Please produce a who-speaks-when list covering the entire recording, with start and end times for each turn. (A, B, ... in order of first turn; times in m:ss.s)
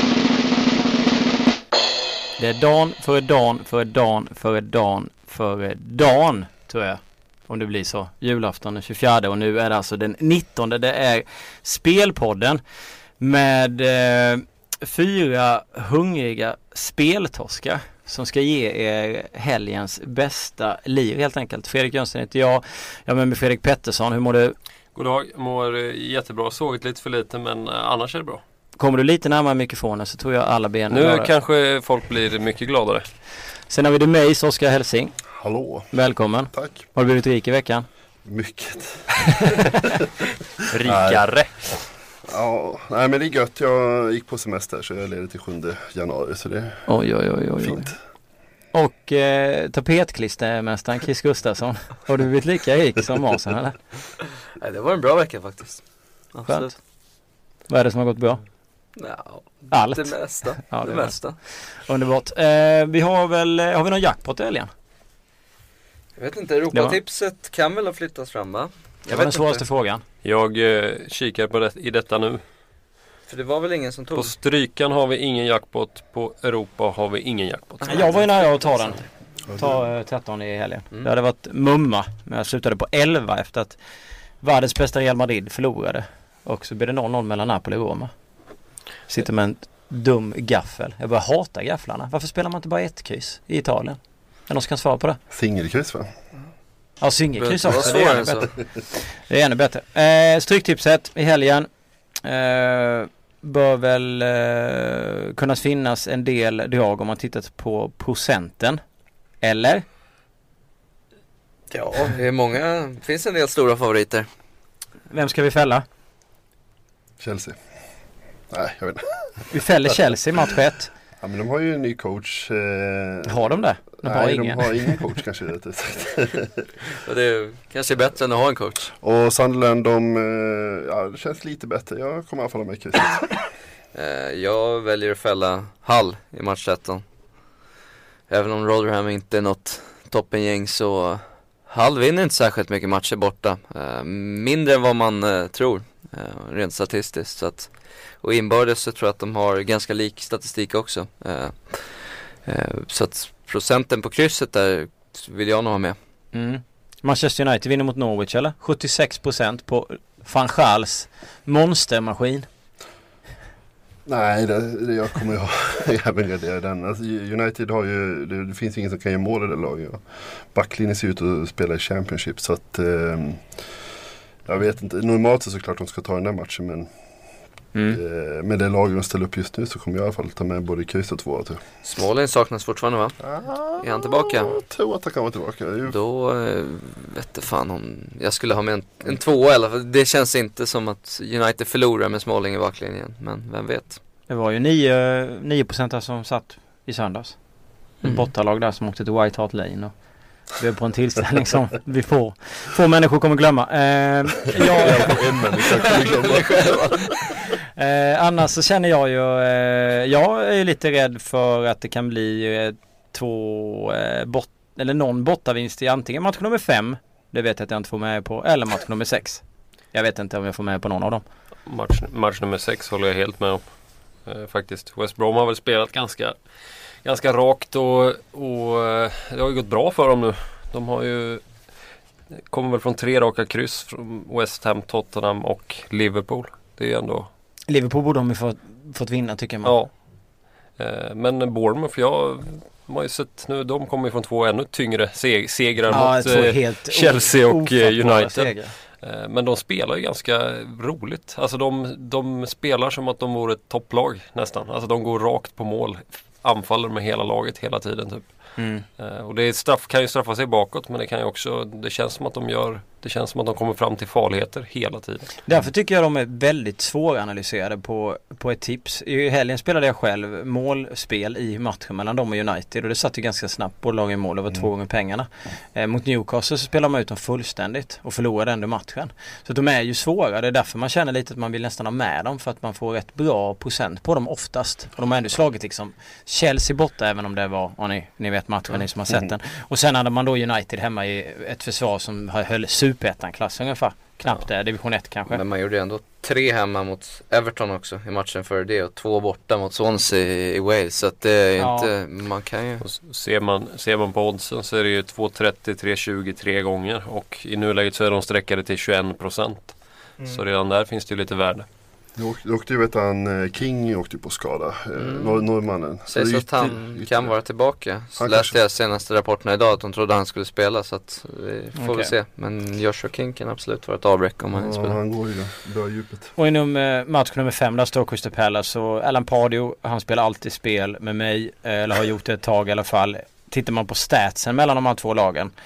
0:02.4-0:12.6 A
0:13.2-0:24.6 A
0:25.0-0:28.4 B
0:28.8-0:31.3 A
0:30.9-0:33.1 B
0:33.7-0:35.2 A
0:35.4-0:35.9 C
0:35.9-0:37.9 A
0:36.5-0:36.8 C
0:38.2-0:39.9 C
0:39.4-0:39.7 A
0:40.7-0:41.6 B
0:40.8-0:46.9 C
0:46.9-0:47.9 A
0:47.6-0:48.0 C
0:48.7-0:53.8 A
0:54.6-0:56.8 D
0:56.5-0:56.8 A
0:57.7-0:58.4 A
0:59.0-1:01.4 D
0:59.7-1:04.7 A
1:06.2-1:09.6 D
1:06.7-1:07.0 A
1:09.1-1:10.0 A
1:10.2-1:12.4 B
1:13.3-1:14.3 D
1:14.2-1:18.1 B
1:17.8-1:19.1 D
1:17.9-1:19.0 A
1:19.5-1:19.9 C
1:19.6-1:23.8 A
1:24.4-1:28.1 A
1:29.1-1:35.2 A
1:35.3-1:36.2 C
1:37.0-1:41.7 A
1:37.4-1:38.5 D
1:42.2-1:48.8 A
1:49.4-1:49.8 A
1:51.7-1:54.3 D
1:55.1-1:55.8 A
1:57.2-1:57.6 C
1:58.5-2:00.0 C
1:59.5-2:00.9 A
2:01.2-2:06.8 C
2:03.3-2:05.0 A
2:06.9-2:08.9 D
2:09.0-2:13.5 C
2:13.9-2:17.0 D
2:18.3-2:36.0 D
2:36.3-2:42.5 A
2:44.1-2:53.6 C
2:54.5-2:56.9 C
2:57.7-2:58.0 A
2:57.9-3:01.6 C
3:01.8-3:03.2 D
3:03.2-3:06.0 C
3:03.8-3:04.6 D
3:05.9-3:14.0 D
3:14.3-3:17.4 A
3:18.0-3:19.9 A
3:20.6-3:25.7 A
3:24.6-3:27.1 C
3:25.6-3:27.2 D
3:27.8-3:41.2 A
3:41.7-3:46.4 B
3:47.0-3:51.5 B
3:52.5-3:57.3 B
3:57.7-3:59.8 A
3:59.6-4:00.0 B
4:00.8-4:25.3 B
4:05.9-4:08.7 A
4:18.6-4:18.8 A
4:25.5-4:55.4 A
4:55.3-5:02.8 D
5:01.6-5:01.9 A
5:02.8-5:11.7 B
5:12.2-5:17.4 C
5:15.0-5:15.4 D
5:16.1-5:25.0 D
5:18.2-5:18.6 C
5:21.8-5:22.1 A
5:24.5-5:26.3 C
5:26.4-5:35.5 A